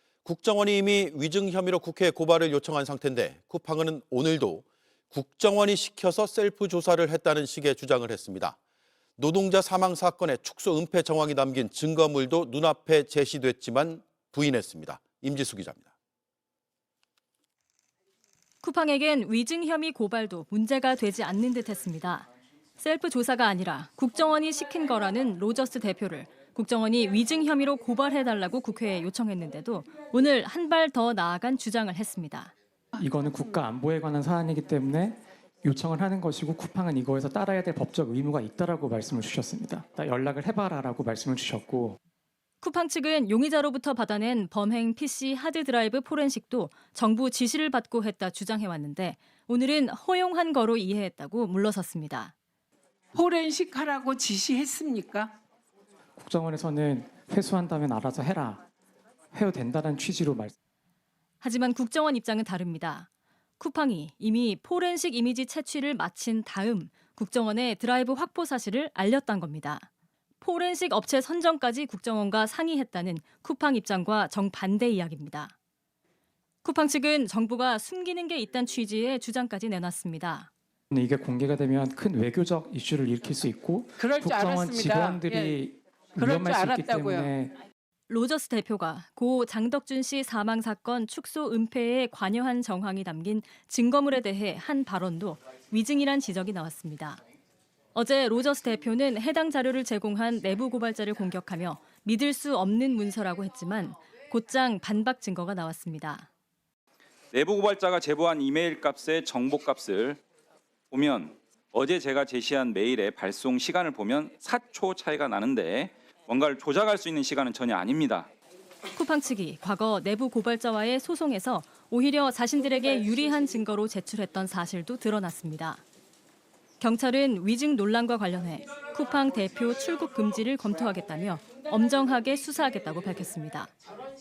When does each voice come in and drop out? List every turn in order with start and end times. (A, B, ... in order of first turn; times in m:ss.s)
0:00.2-0:08.6 A
0:09.2-0:15.9 A
0:18.6-0:32.5 B
0:32.9-0:42.0 C
0:42.6-0:52.3 B
0:53.1-0:55.3 D
0:56.2-0:58.6 C
0:59.3-1:00.5 C
1:01.4-1:03.1 B
1:03.6-1:09.9 B
1:10.4-1:15.5 B
1:16.6-1:20.5 B
1:20.9-1:27.6 C
1:24.0-1:25.6 D
1:26.2-1:27.3 D
1:28.1-1:37.2 B
1:37.9-1:46.3 B
1:47.3-1:50.2 E
1:50.9-1:58.3 E
1:58.9-2:05.8 B
2:06.8-2:13.7 B